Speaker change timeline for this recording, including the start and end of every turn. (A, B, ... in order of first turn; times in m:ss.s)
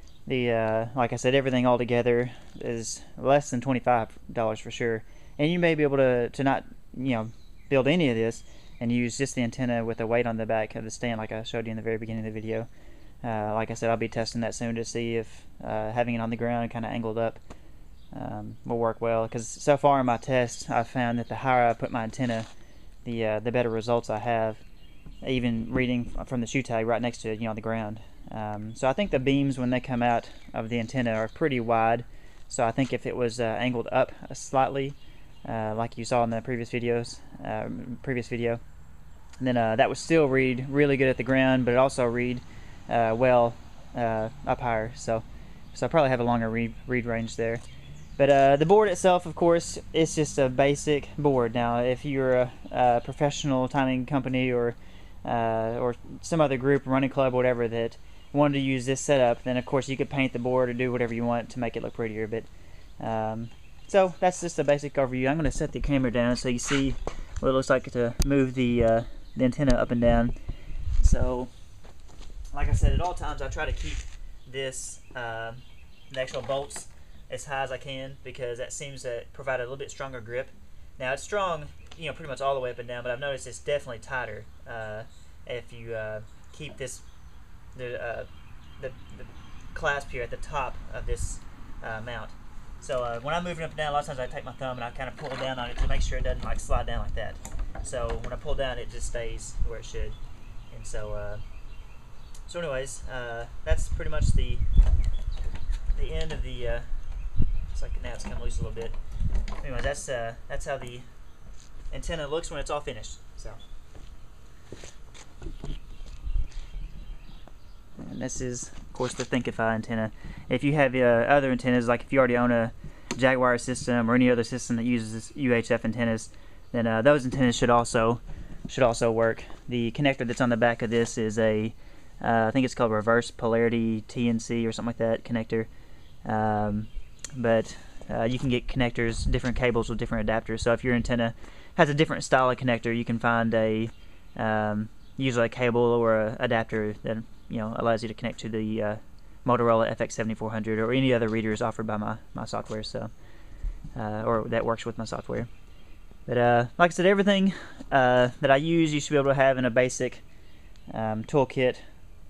0:00.3-0:12.7 A
0:13.2-0:17.4 A
0:18.1-0:22.5 A
0:23.0-0:24.6 A
0:25.2-0:38.6 A
0:39.4-0:47.6 A
0:48.2-1:02.5 A
1:03.0-1:10.3 A
1:11.0-1:11.5 A
1:12.5-1:27.0 A
1:27.7-1:28.3 A
1:28.8-1:40.2 A
1:40.7-1:41.4 A
1:42.4-1:44.6 A
1:45.9-1:46.9 A
1:47.7-1:49.0 A
1:49.6-1:51.0 A
1:51.9-1:53.6 A
1:58.0-2:15.7 A
2:16.2-2:33.1 A
2:33.9-2:35.5 A
2:36.3-2:40.2 A
2:40.9-2:41.8 A